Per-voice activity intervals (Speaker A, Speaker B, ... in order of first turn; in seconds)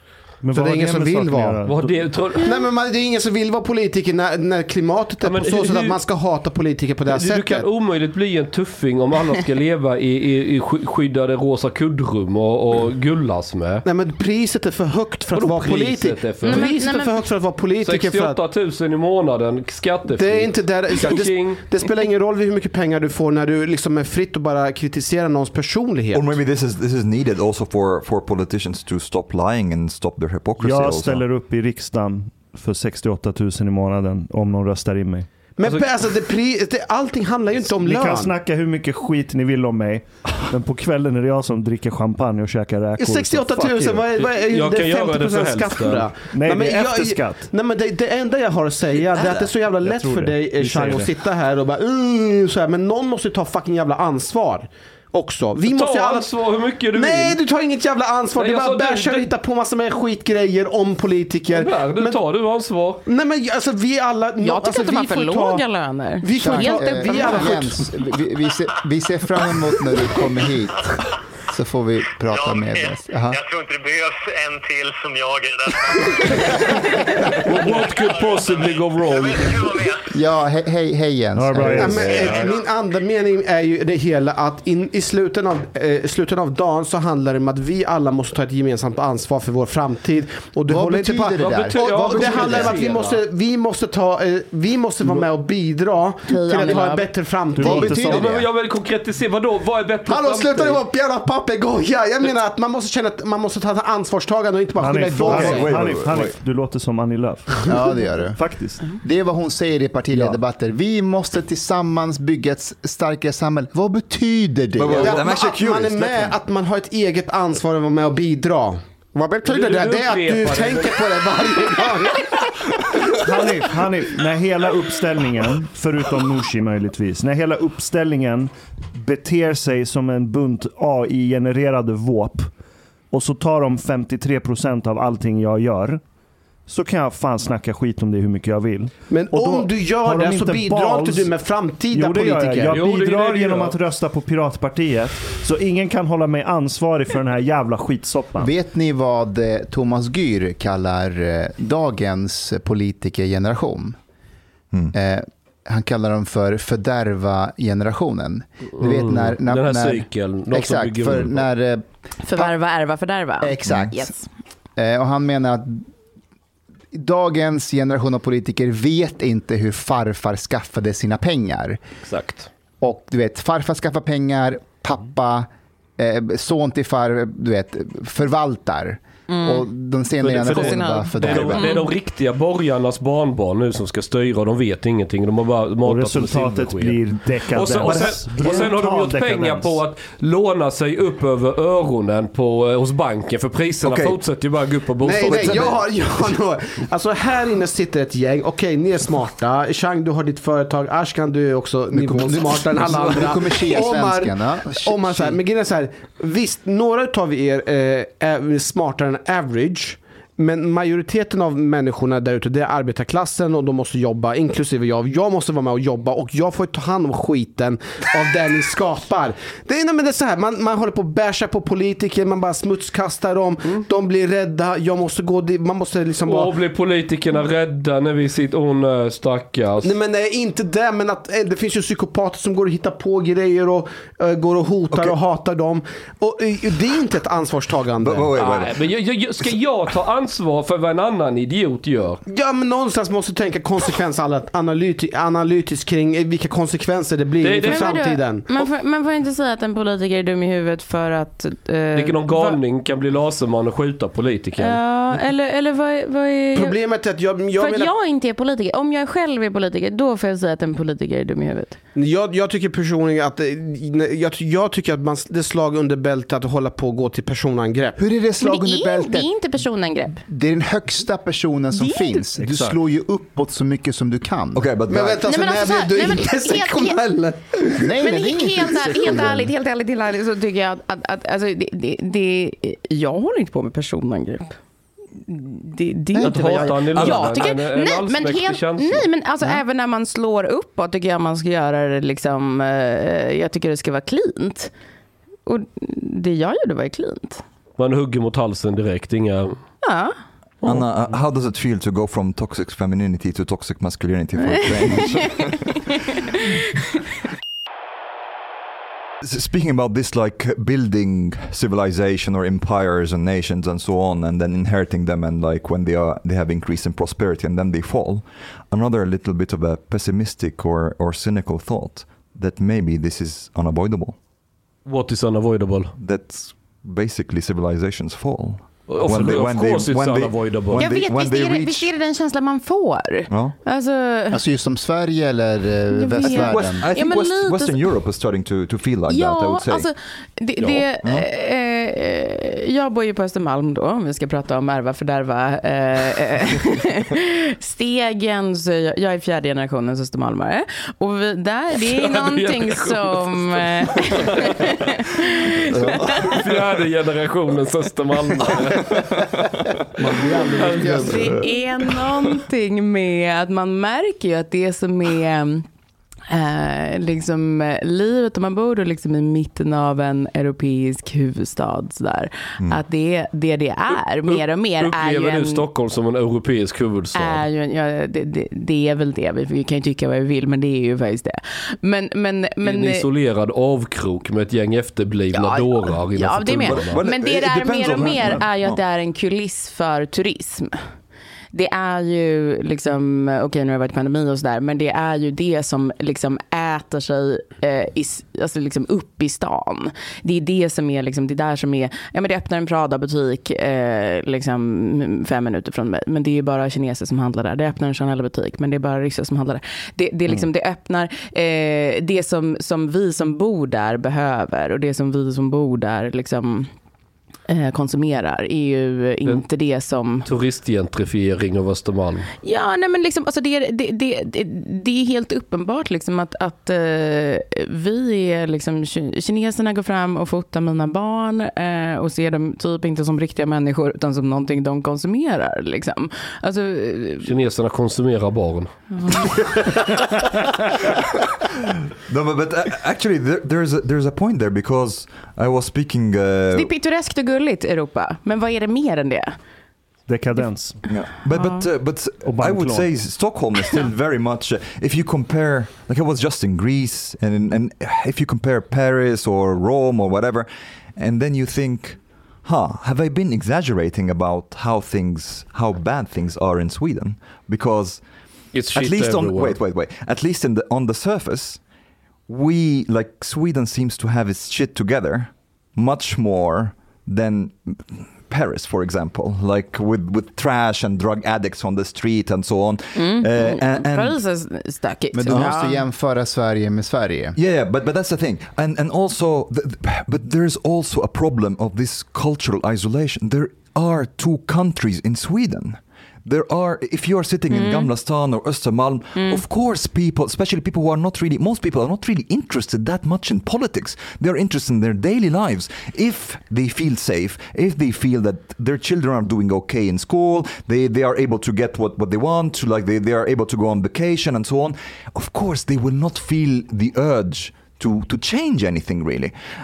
Speaker A: 0.4-2.0, 30.6-35.3, 37.7-44.0, 46.3-47.5, 49.8-51.1, 81.4-82.2, 97.5-98.3, 104.8-107.8, 108.4-108.8, 123.2-132.5, 133.1-136.0, 136.7-141.3, 141.9-148.5, 185.8-189.8, 272.4-272.8, 450.1-450.8, 452.2-452.9
Speaker B: 0.5-1.6, 2.4-7.7, 13.8-18.4, 20.1-26.4, 35.6-38.3, 43.0-56.3, 56.9-62.2, 63.0-65.6, 66.2-67.8, 81.7-98.2, 100.0-106.0, 114.9-122.4, 139.1-142.7, 195.0-226.5, 229.8-238.3, 242.3-248.5, 256.5-257.9, 261.9-268.0, 274.9-277.9, 360.0-361.3
Speaker C: 1.6-2.6, 5.2-6.0, 7.1-13.8, 15.3-16.7, 17.8-21.6, 44.2-46.1, 55.6-57.4, 58.4-59.3, 61.5-63.0, 77.4-79.6, 91.4-93.2, 98.0-100.8, 119.5-121.1, 142.7-143.8, 158.8-161.4, 172.1-172.5, 180.2-195.8, 226.2-229.9, 238.3-242.2, 247.4-248.1, 251.9-254.8, 286.2-289.1, 297.8-299.6, 324.9-325.9, 328.9-330.9, 340.6-340.9, 351.9-354.5, 356.3-359.2, 360.6-361.3, 374.3-377.4, 382.6-387.0, 420.2-422.3, 437.2-438.7, 468.5-469.6
Speaker D: 16.4-17.1, 64.4-67.5, 96.3-97.1, 162.2-164.2, 179.3-179.7, 180.4-181.9, 247.6-252.6, 254.6-256.8, 257.6-261.8, 268.4-270.2, 271.7-272.2, 275.2-277.0, 277.8-284.6, 285.3-294.7, 295.4-297.4, 299.8-300.1, 304.6-305.6, 330.8-334.4, 335.9-337.8, 339.1-356.4, 360.8-365.6, 366.3-375.6, 377.1-383.1, 385.3-390.8, 391.5-416.7, 417.5-420.3, 422.4-437.3, 438.9-439.3, 446.5-449.4, 451.4-451.6, 482.9-485.9, 497.5-497.9, 499.1-499.4
Speaker E: 26.1-31.2, 105.1-106.4, 114.8-116.3, 193.8-194.2, 195.3-195.8, 234.9-235.2, 238.0-238.8, 274.5-275.2, 286.9-287.4, 300.6-305.9, 309.2-324.2, 326.0-331.9, 333.3-333.6, 336.2-339.9, 355.9-356.4, 386.6-388.8, 442.1-446.7, 450.9-468.0, 468.7-471.6, 472.3-484.2, 487.4-519.3
Speaker F: 66.3-70.9, 71.5-73.4, 80.1-82.4, 90.7-92.8, 97.6-98.5, 107.7-108.4, 109.0-115.2, 148.4-153.9, 154.9-162.6, 163.4-164.2, 164.8-165.9, 166.9-171.8, 172.8-181.7, 201.9-205.4, 268.0-269.3, 270.2-274.7, 277.8-279.5, 286.1-286.7, 334.3-336.9, 485.1-487.4
Speaker G: 72.3-80.2, 82.1-82.6